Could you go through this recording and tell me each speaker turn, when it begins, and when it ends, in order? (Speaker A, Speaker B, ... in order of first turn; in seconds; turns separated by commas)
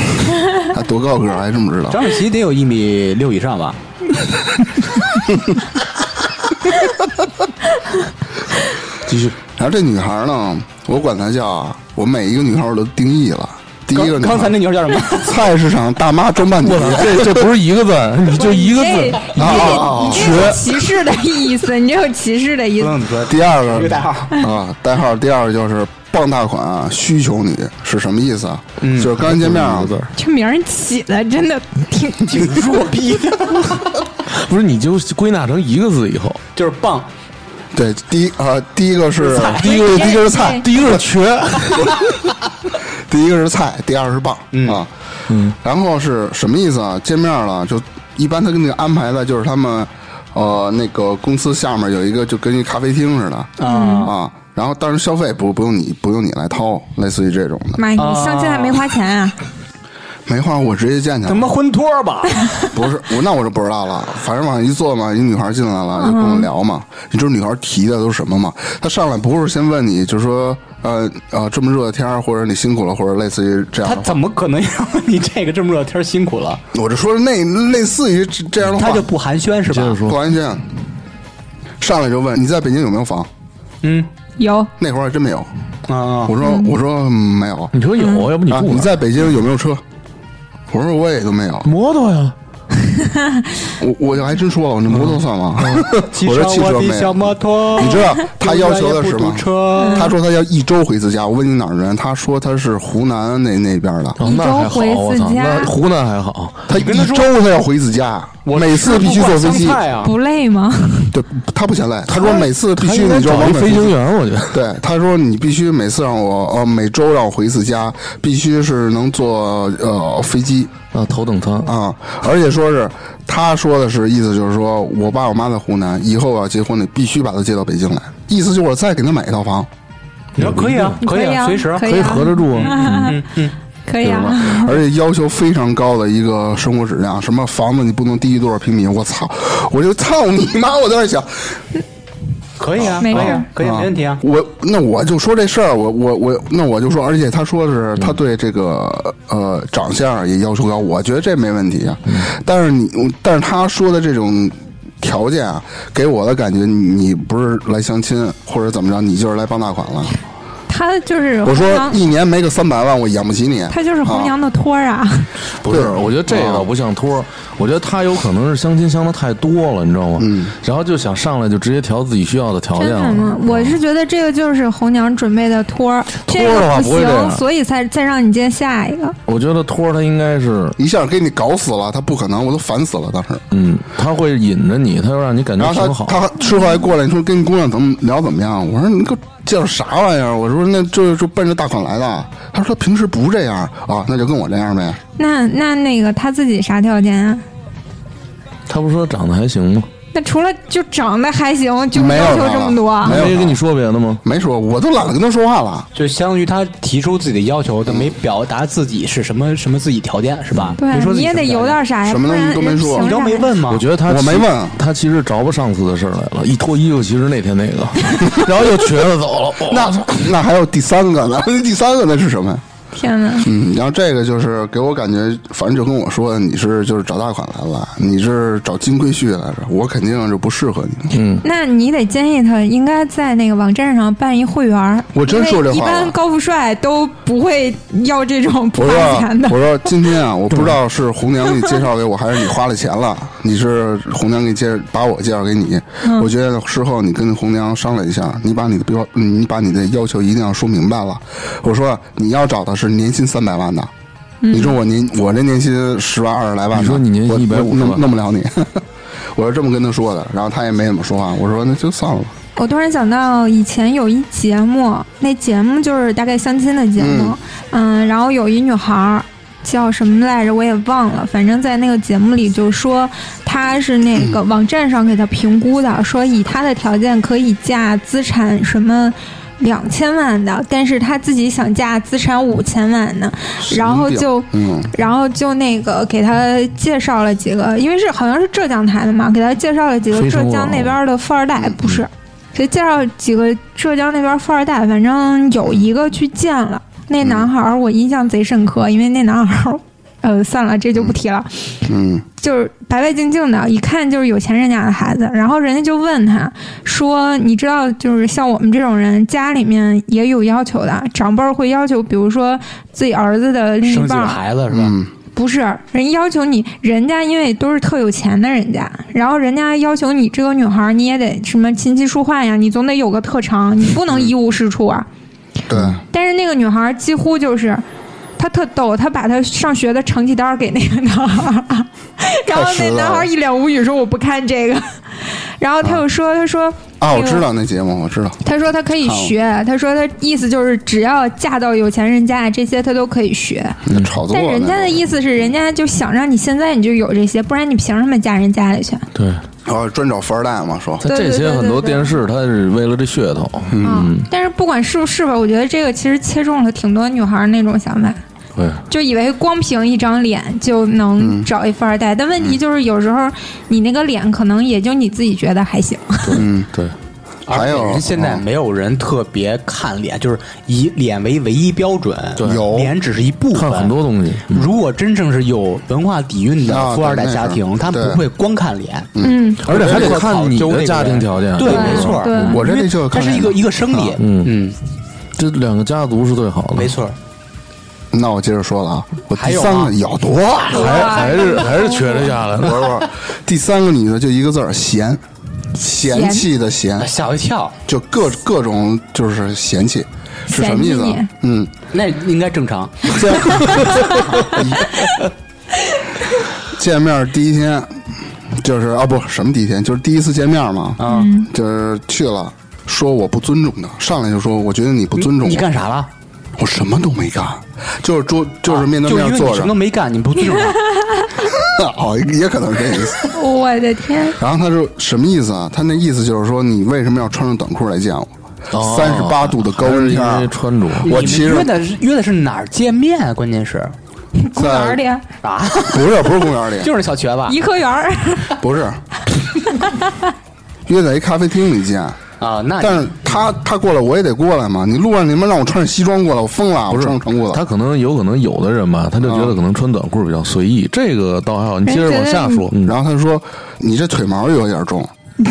Speaker A: 0.6-2.0, Speaker B: 1.9-3.8, Speaker A: 5.3-5.6, Speaker C: 9.1-9.3, Speaker A: 9.6-14.6, Speaker B: 13.9-15.4, Speaker A: 15.1-17.5, Speaker C: 16.6-20.7, Speaker D: 18.3-23.0, Speaker A: 19.3-20.7, Speaker B: 22.8-24.4, Speaker A: 23.2-29.9, Speaker B: 28.8-29.1, Speaker C: 29.2-30.1, Speaker D: 30.1-32.5, Speaker B: 32.2-33.9, Speaker C: 34.3-36.4, Speaker B: 36.5-37.1, Speaker A: 37.7-41.0, Speaker B: 39.1-39.9, Speaker C: 39.6-42.0, Speaker D: 39.7-40.6, Speaker A: 41.8-42.1, Speaker A: 43.1-44.9, Speaker B: 44.5-44.8, Speaker C: 45.3-45.5, Speaker A: 45.5-57.9, Speaker B: 53.6-54.1, Speaker D: 53.6-54.1, Speaker D: 57.8-59.4, Speaker B: 58.0-58.9, Speaker A: 60.2-61.5, Speaker B: 61.2-62.7, Speaker A: 62.7-74.2, Speaker D: 66.0-66.5, Speaker B: 73.8-76.6, Speaker A: 76.7-79.1, Speaker B: 78.7-80.0, Speaker C: 79.7-80.2, Speaker A: 80.0-80.7, Speaker A: 81.8-83.3, Speaker B: 83.8-84.1, Speaker D: 84.4-84.7, Speaker A: 84.8-85.5, Speaker B: 85.9-86.3, Speaker A: 86.2-87.7, Speaker D: 86.4-86.7, Speaker C: 87.7-89.0, Speaker D: 88.0-88.3, Speaker A: 88.5-89.8, Speaker A: 90.7-91.7, Speaker C: 91.6-92.3, Speaker D: 93.0-93.4, Speaker A: 93.8-104.2, Speaker C: 94.9-95.9, Speaker B: 96.1-100.1, Speaker D: 99.8-100.1, Speaker C: 104.2-106.6, Speaker D: 104.2-105.7, Speaker A: 106.7-109.8, Speaker B: 106.7-107.3, Speaker B: 108.4-110.1, Speaker D: 110.0-111.1, Speaker A: 111.1-114.0, Speaker C: 112.1-114.6, Speaker A: 114.5-120.7, Speaker C: 120.9-121.7, Speaker A: 121.6-129.7, Speaker C: 130.4-131.0, Speaker B: 130.4-133.5, Speaker D: 131.0-133.2, Speaker C: 131.8-133.1, Speaker D: 133.8-134.8, Speaker A: 134.0-141.6, Speaker B: 142.6-144.2, Speaker A: 142.8-160.2, Speaker D: 143.0-143.4, Speaker D: 160.7-162.0, Speaker A: 161.4-164.3, Speaker D: 163.7-165.3, Speaker C: 165.6-173.8, Speaker A: 165.6-166.7, Speaker A: 170.2-170.5, Speaker D: 172.8-179.2, Speaker C: 176.2-177.4, Speaker C: 179.3-180.8, Speaker A: 180.8-183.4, Speaker C: 183.5-186.2, Speaker A: 185.6-195.0, Speaker D: 186.5-186.8, Speaker D: 195.2-197.4, Speaker C: 198.7-199.9, Speaker D: 200.1-203.2, Speaker A: 201.9-203.6, Speaker C: 203.0-204.2, Speaker A: 204.2-205.9, Speaker B: 205.9-211.8, Speaker D: 210.8-213.5, Speaker A: 212.0-213.1, Speaker B: 213.0-213.8, Speaker C: 213.7-220.1, Speaker A: 214.0-214.8, Speaker A: 219.7-222.6, Speaker D: 222.9-223.5, Speaker A: 223.4-231.2, Speaker C: 231.1-231.4, Speaker D: 231.4-239.7, Speaker A: 235.1-236.2, Speaker A: 238.7-253.9, Speaker D: 246.0-246.3, Speaker D: 254.4-254.8, Speaker A: 254.5-262.3, Speaker C: 256.7-258.0, Speaker D: 262.6-301.8, Speaker A: 267.0-267.4, Speaker A: 283.6-284.9, Speaker C: 290.1-291.0, Speaker A: 291.6-292.0, Speaker A: 297.2-297.5, Speaker A: 301.9-302.2, Speaker D: 302.4-314.4, Speaker B: 313.8-314.9, Speaker A: 314.7-315.1, Speaker D: 315.3-325.1, Speaker A: 325.7-326.0, Speaker D: 326.1-327.8, Speaker D: 328.4-335.0, Speaker A: 332.5-333.3, Speaker D: 335.6-337.4, Speaker A: 337.0-338.4, Speaker D: 338.4-349.1, Speaker B: 339.1-339.3, Speaker A: 343.8-345.1, Speaker C: 349.1-349.4, Speaker A: 349.6-351.0, Speaker C: 351.0-354.3, Speaker D: 351.0-352.2, Speaker A: 353.7-354.1, Speaker D: 353.8-358.2, Speaker C: 358.5-358.8, Speaker D: 358.9-366.4, Speaker A: 361.2-361.5, Speaker C: 366.2-366.9, Speaker A: 366.3-366.7, Speaker B: 367.5-373.9, Speaker A: 367.5-368.4, Speaker C: 372.4-372.7, Speaker A: 372.4-372.9, Speaker C: 373.5-374.7, Speaker B: 374.5-379.1, Speaker A: 376.6-378.2, Speaker A: 379.1-380.2, Speaker D: 379.2-379.6, Speaker C: 379.6-382.5, Speaker B: 379.7-384.8, Speaker D: 381.6-382.6, Speaker A: 382.4-384.1, Speaker C: 384.2-384.5, Speaker C: 385.4-386.9, Speaker B: 386.8-387.1, Speaker A: 388.1-391.4, Speaker B: 389.3-390.0, Speaker C: 390.7-392.9, Speaker D: 390.7-392.4, Speaker A: 392.6-395.2, Speaker A: 395.8-397.1, Speaker D: 395.8-396.5, Speaker B: 397.0-397.8, Speaker A: 397.9-401.7, Speaker D: 400.5-401.3, Speaker B: 401.9-403.2, Speaker A: 403.0-405.0, Speaker A: 406.7-408.0, Speaker A: 408.5-415.6, Speaker B: 411.0-411.3, Speaker D: 411.0-411.5, Speaker B: 415.1-416.1, Speaker A: 416.6-419.8, Speaker B: 418.6-420.9, Speaker A: 421.4-423.3, Speaker D: 423.3-424.4, Speaker A: 424.4-430.5, Speaker C: 428.7-431.3, Speaker A: 431.0-431.7, Speaker B: 431.0-433.9, Speaker D: 434.4-435.2, Speaker A: 434.5-435.0, Speaker B: 435.4-436.2, Speaker A: 435.9-436.9, Speaker B: 436.8-437.6, Speaker D: 437.5-438.6, Speaker A: 438.6-439.0, Speaker A: 440.9-442.2, Speaker B: 442.4-443.4, Speaker A: 442.8-447.6, Speaker C: 446.9-452.9, Speaker A: 449.2-449.6, Speaker D: 451.9-452.6, Speaker A: 452.8-455.1